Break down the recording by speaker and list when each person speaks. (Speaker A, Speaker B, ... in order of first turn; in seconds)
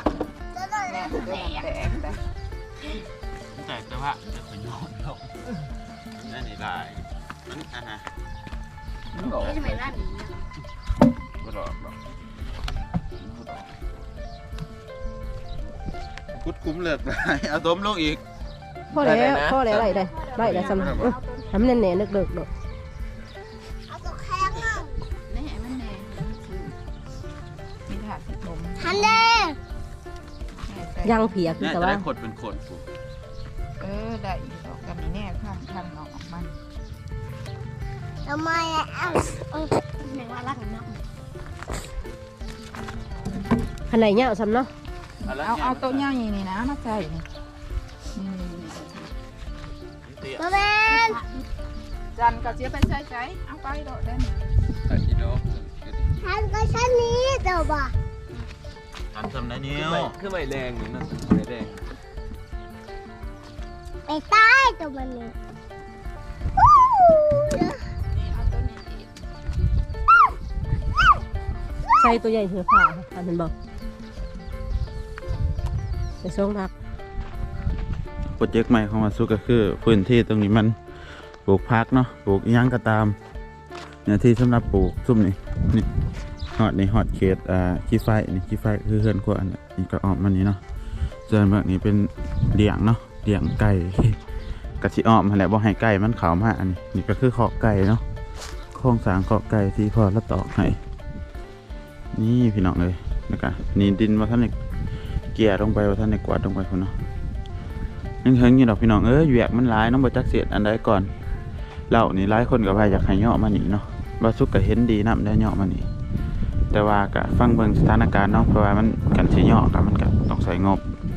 Speaker A: 0.6-1.2, 9.7-10.3, 23.9-24.9, 29.1-29.6, 38.3-40.9, 50.4-51.2, 56.2-57.9, 64.1-65.3, 66.9-67.8
Speaker B: 0.8-2.2, 19.7-21.8, 25.3-26.8, 27.9-29.5, 30.6-31.5, 33.8-36.6, 45.3-47.3, 48.1-49.1, 50.9-51.4, 52.1-54.4, 68.1-69.2
Speaker C: 3.5-8.1, 9.2-10.1, 11.4-12.0, 13.2-13.7, 16.3-18.2, 20.5-21.0, 31.6-32.9, 45.2-46.1, 50.0-50.6, 59.1-60.2, 78.3-83.2, 84.0-86.0, 86.5-90.6, 91.3-94.2, 94.8-98.0, 98.7-100.8, 102.1-104.5, 105.3-107.0, 108.2-111.1, 111.9-115.9, 116.7-121.0
Speaker D: 9.2-9.7, 19.0-19.7, 20.7-20.9, 54.9-56.2, 59.8-61.8
Speaker E: 18.9-22.5, 31.0-32.0, 43.9-44.7, 71.9-73.5, 76.2-76.7